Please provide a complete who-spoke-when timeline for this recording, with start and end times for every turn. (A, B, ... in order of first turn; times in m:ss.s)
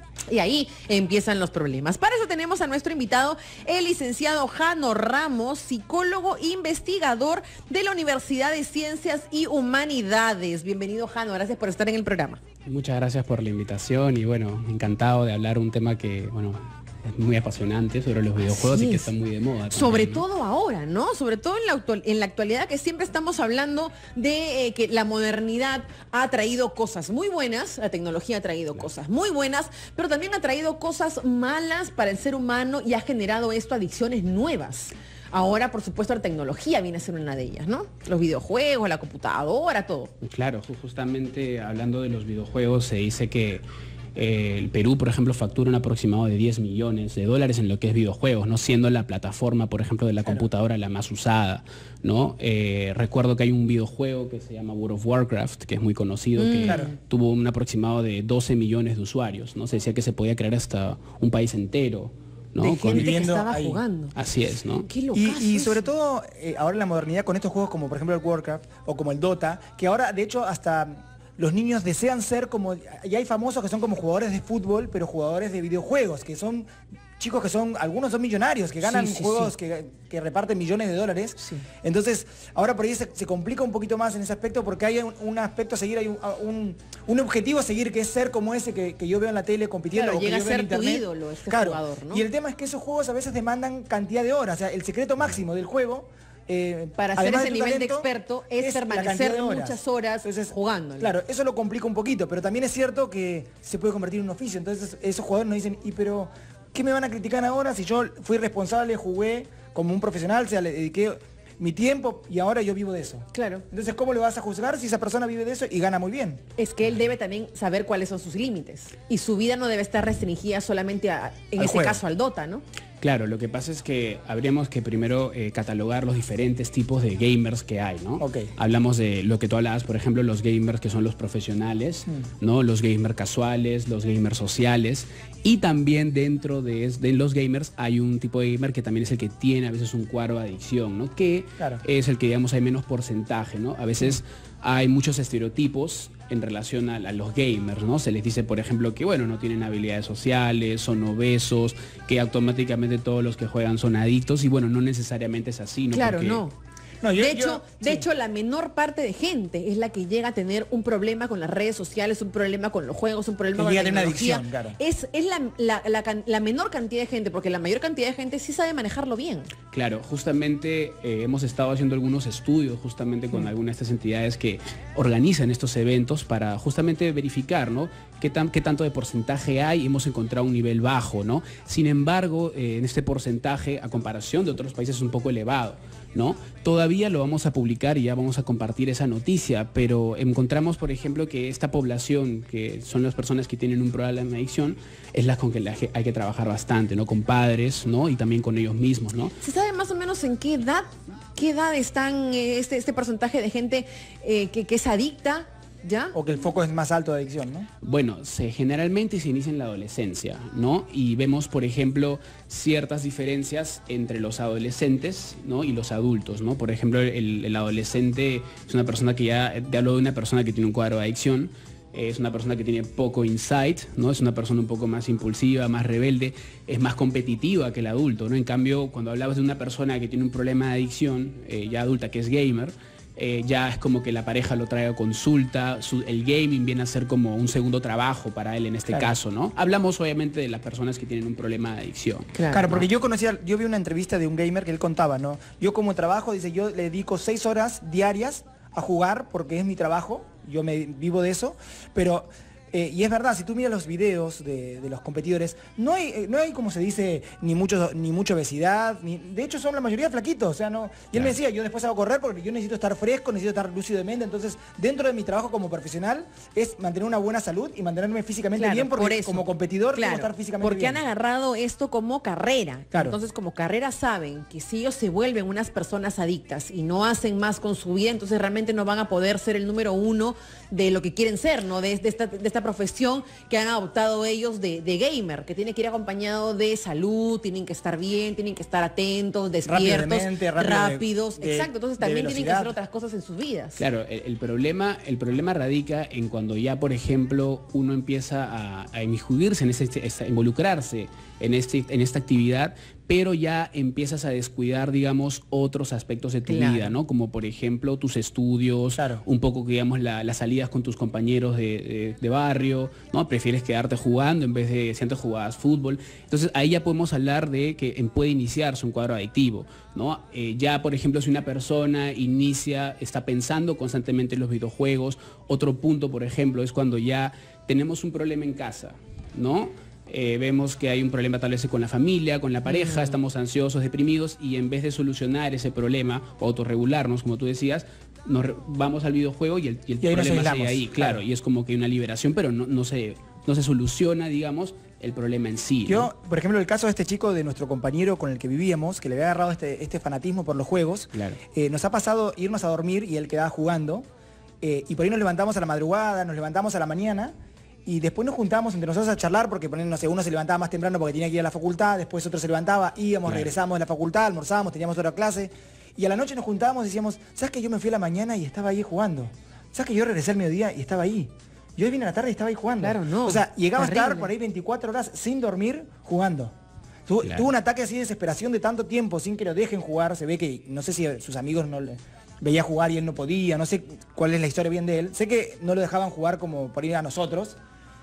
0:00.3-0:12.4 A
0:12.6-0:20.2 B
0:18.4-0:19.1 A
0:19.7-0:40.1 A
0:40.2-1:03.1 B
0:56.4-0:56.9 A
1:02.6-1:04.1 A
1:02.9-1:03.8 C
1:04.1-1:04.9 B
1:04.8-1:05.8 A
1:05.1-1:38.1 C
1:18.8-1:19.4 B
1:29.9-1:32.2 A
1:37.0-1:41.1 A
1:38.6-1:56.4 C
1:53.3-1:53.6 A
1:56.6-2:02.6 A
2:01.6-2:02.0 C
2:03.0-2:36.4 B
2:08.2-2:08.5 C
2:35.9-2:36.5 A
2:37.0-2:38.0 C
2:37.2-2:49.5 A
2:43.6-2:44.8 C
2:49.7-3:19.3 B
3:19.4-3:26.2 A
3:26.1-3:27.7 C
3:27.8-4:02.8 B
4:02.3-4:02.6 A
4:02.5-4:31.0 C
4:28.6-4:53.8 A
4:49.6-4:52.7 C
4:53.8-5:46.1 B
5:06.5-5:06.9 A
5:09.0-5:09.2 C
5:32.7-5:33.2 A
5:40.0-5:41.2 C
5:45.8-5:54.0 C
5:51.1-5:51.4 B
5:54.6-5:57.3 C
5:57.8-6:16.5 C
6:03.2-6:03.5 B
6:12.8-6:14.3 A
6:17.1-6:27.6 C
6:17.2-6:17.5 B